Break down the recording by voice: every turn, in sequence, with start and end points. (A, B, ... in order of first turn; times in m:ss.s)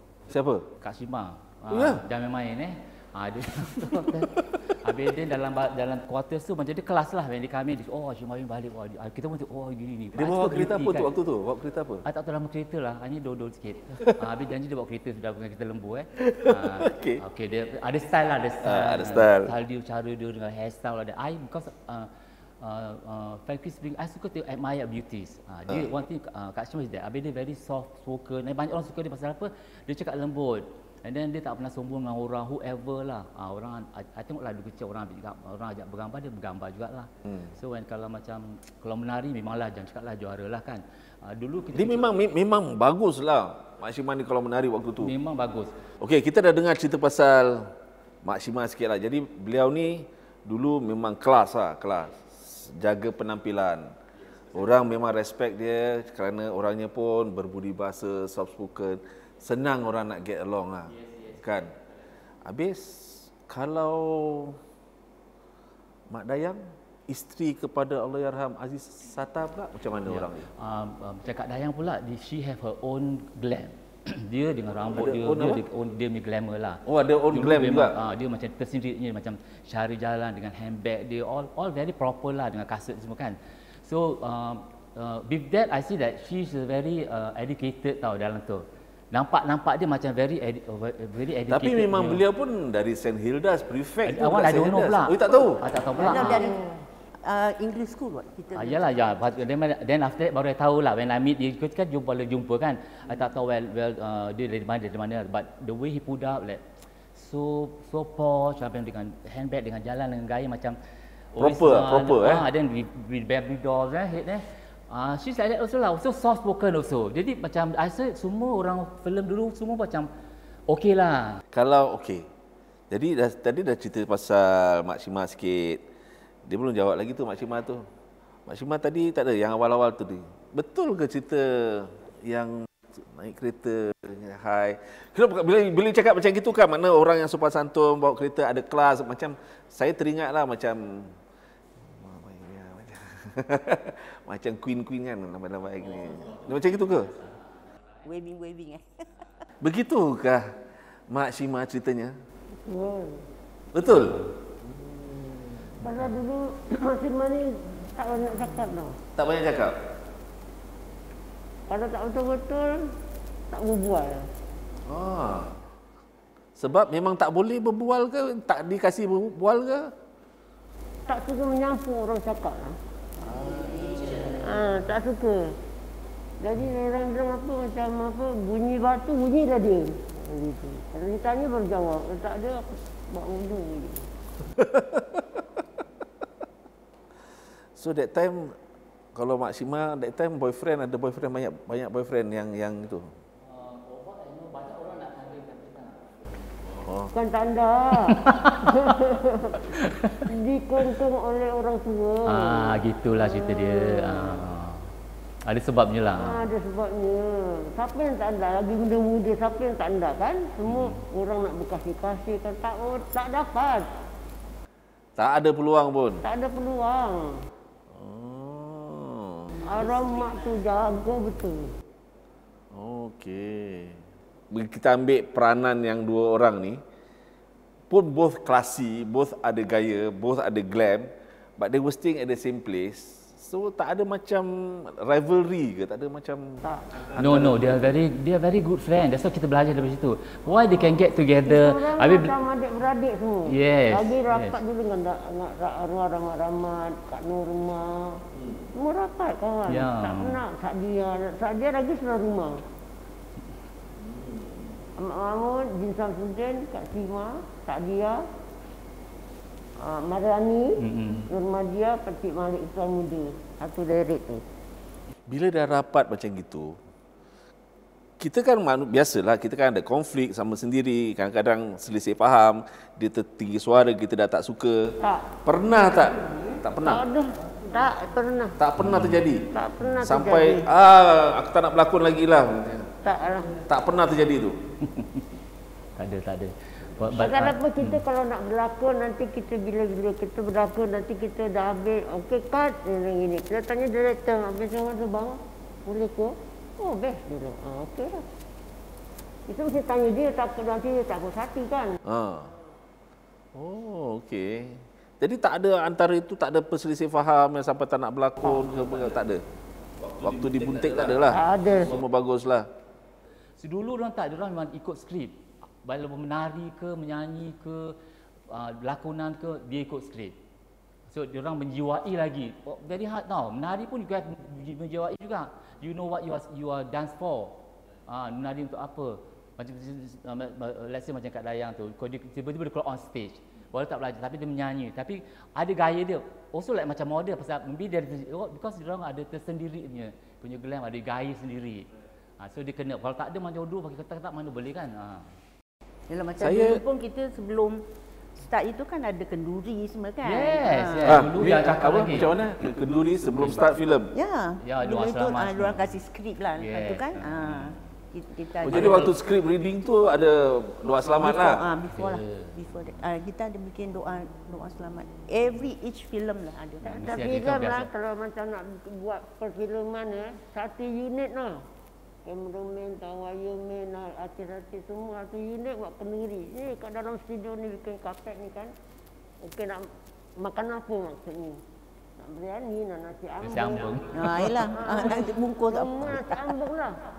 0:00.3-0:00.7 A
0:00.8-0:11.1 B
0:01.7-0:02.0 A
0:10.1-0:12.0 A
0:12.0-0:22.1 B
0:16.2-0:17.2 A
0:18.6-0:19.5 A
0:22.6-0:42.1 B
0:25.7-0:25.9 A
0:41.7-0:45.1 A
0:45.0-0:45.8 B
0:46.0-0:53.9 A
0:54.5-1:01.7 A
1:02.4-1:04.6 A
1:06.1-1:10.5 A
1:10.1-1:32.2 B
1:14.9-1:15.6 A
1:16.9-1:18.0 A
1:31.5-1:35.7 A
1:34.0-1:36.6 B
1:36.0-1:36.6 C
1:36.2-1:36.7 D
1:37.2-1:39.0 C
1:38.5-1:46.6 B
1:47.1-1:50.8 B
1:51.3-2:00.1 B
1:51.4-1:52.5 A
2:00.7-2:01.4 B
2:01.5-2:02.2 A
2:02.9-2:05.8 A
2:06.4-2:07.8 A
2:08.5-2:21.2 A
2:21.8-2:27.2 A
2:26.1-2:27.3 B
2:28.0-2:29.0 C
2:29.6-2:30.5 A
2:31.1-2:32.2 A
2:32.6-2:33.2 D
2:33.7-2:35.4 A
2:33.9-2:34.3 B
2:35.8-2:39.0 D
2:39.2-2:39.8 A
2:41.7-2:42.9 D
2:43.5-2:44.2 D
2:44.9-2:45.6 A
2:46.6-2:49.9 A
2:51.1-2:52.8 D
2:53.2-2:54.3 A
2:54.3-2:55.5 D
2:56.4-3:04.1 D
3:04.5-3:05.2 A
3:07.8-3:08.6 A
3:09.1-3:13.1 A
3:13.4-3:16.1 B
3:16.8-3:17.1 A
3:17.1-3:24.4 D
3:18.1-3:18.9 B
3:19.7-3:20.3 B
3:22.2-3:24.9 B
3:25.4-3:26.5 B
3:26.2-3:33.9 D
3:30.7-3:31.0 B
3:35.2-3:36.2 A
3:36.2-3:37.4 D
3:37.9-3:39.6 A
3:39.6-3:41.7 D
3:42.7-3:46.8 A
3:47.9-3:57.9 A
3:57.1-4:02.3 B
4:01.4-4:08.2 D
4:03.5-4:04.6 B
4:08.4-4:08.6 A
4:08.7-4:12.6 D
4:09.7-4:10.4 B
4:14.0-4:14.8 A
4:15.0-4:18.2 D
4:19.8-4:24.4 D
4:20.8-4:21.3 B
4:25.3-4:26.8 A
4:28.2-4:37.0 A
4:35.0-4:35.3 D
4:36.8-4:38.6 D
4:38.6-4:39.4 A
4:38.8-4:39.2 B
4:39.5-4:40.6 D
4:40.0-4:42.9 A
4:43.0-4:43.6 D
4:43.6-4:44.6 A
4:44.8-4:45.2 B
4:46.0-4:48.0 B
4:47.1-4:58.2 D
4:59.5-5:02.0 D
5:02.0-5:02.5 A
5:03.5-5:09.4 A
5:10.1-5:12.6 A
5:10.8-5:11.0 B
5:11.3-5:11.9 D
5:13.6-5:18.0 B
5:18.5-5:20.4 B
5:21.1-5:41.9 B
5:42.4-5:45.3 B
5:46.1-5:47.8 C
5:46.4-5:46.8 A
5:48.4-5:51.3 C
5:50.2-5:52.4 B
5:51.0-5:54.1 A
5:54.1-5:59.2 C
5:54.6-5:55.9 B
5:56.6-5:57.8 B
5:58.6-6:01.6 A
5:58.7-5:59.1 B
6:01.1-6:07.2 C
6:01.9-6:02.6 B
6:06.8-6:07.9 B
6:07.0-6:11.7 D
6:12.2-6:18.7 D
6:19.4-6:21.6 D
6:22.2-6:27.0 D
6:23.4-6:24.6 B
6:24.1-6:26.5 C